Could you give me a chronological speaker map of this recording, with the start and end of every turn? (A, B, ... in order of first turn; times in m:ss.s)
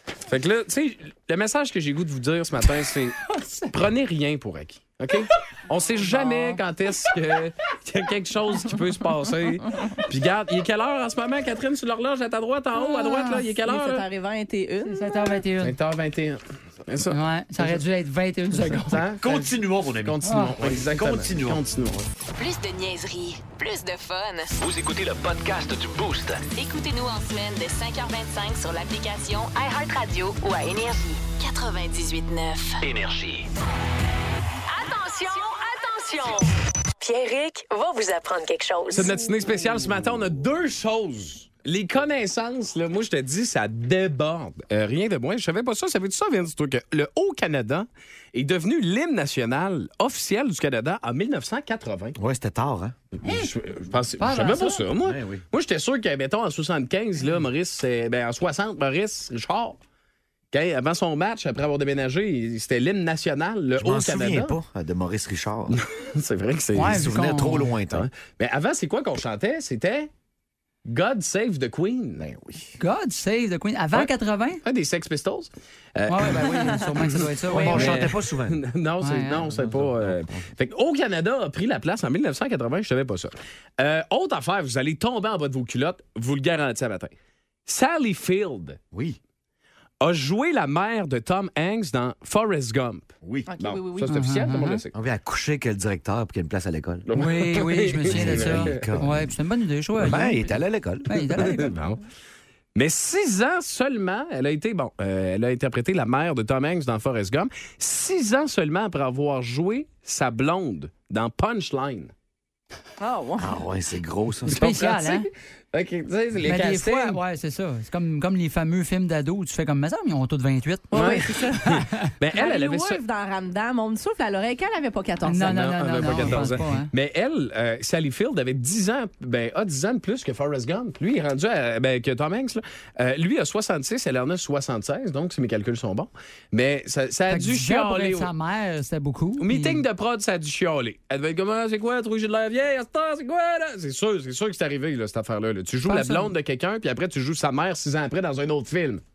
0:00.3-0:14.1 A
0:03.3-0:03.7 B
0:06.1-0:06.6 B
0:12.7-0:15.4 C
0:14.8-0:15.8 B
0:15.6-0:17.8 A
0:17.1-0:19.0 B
0:18.5-0:22.0 A
0:19.2-0:21.6 D
0:20.3-0:20.5 B
0:22.4-0:24.5 E
0:24.6-0:26.5 F
0:26.5-0:32.8 E
0:32.8-0:33.5 F
0:34.7-0:36.5 E
0:37.0-0:39.1 E
0:38.9-0:52.2 A
0:52.2-0:53.0 D
0:53.2-0:59.8 A
0:53.2-0:53.5 B
0:54.2-0:54.8 B
0:55.0-0:55.4 D
1:00.5-1:04.6 A
1:03.8-1:05.8 D
1:05.7-1:07.1 A
1:06.8-1:07.7 B
1:06.8-1:08.1 D
1:07.9-1:10.1 A
1:10.8-1:12.6 A
1:12.8-1:14.6 B
1:14.6-1:27.1 A
1:16.1-1:18.1 B
1:17.5-1:18.6 D
1:19.0-1:19.5 B
1:19.5-1:20.4 D
1:27.7-1:28.8 A
1:28.9-1:29.2 D
1:30.0-1:35.0 A
1:33.2-1:33.5 D
1:33.5-1:34.2 C
1:34.1-1:34.8 B
1:35.0-1:37.1 D
1:37.1-1:39.0 A
1:37.2-1:41.8 B
1:38.0-1:39.3 D
1:40.0-1:41.5 D
1:41.4-1:42.0 A
1:42.8-1:52.1 A
1:53.0-1:53.6 C
1:53.4-1:54.6 D
1:54.5-1:55.3 B
1:54.6-1:57.2 A
1:56.4-2:01.0 B
2:00.9-2:01.8 C
2:00.9-2:03.0 A
2:02.3-2:05.7 C
2:05.2-2:06.9 B
2:05.5-2:18.3 A
2:17.3-2:19.8 B
2:19.4-2:29.0 A
2:25.9-2:26.3 B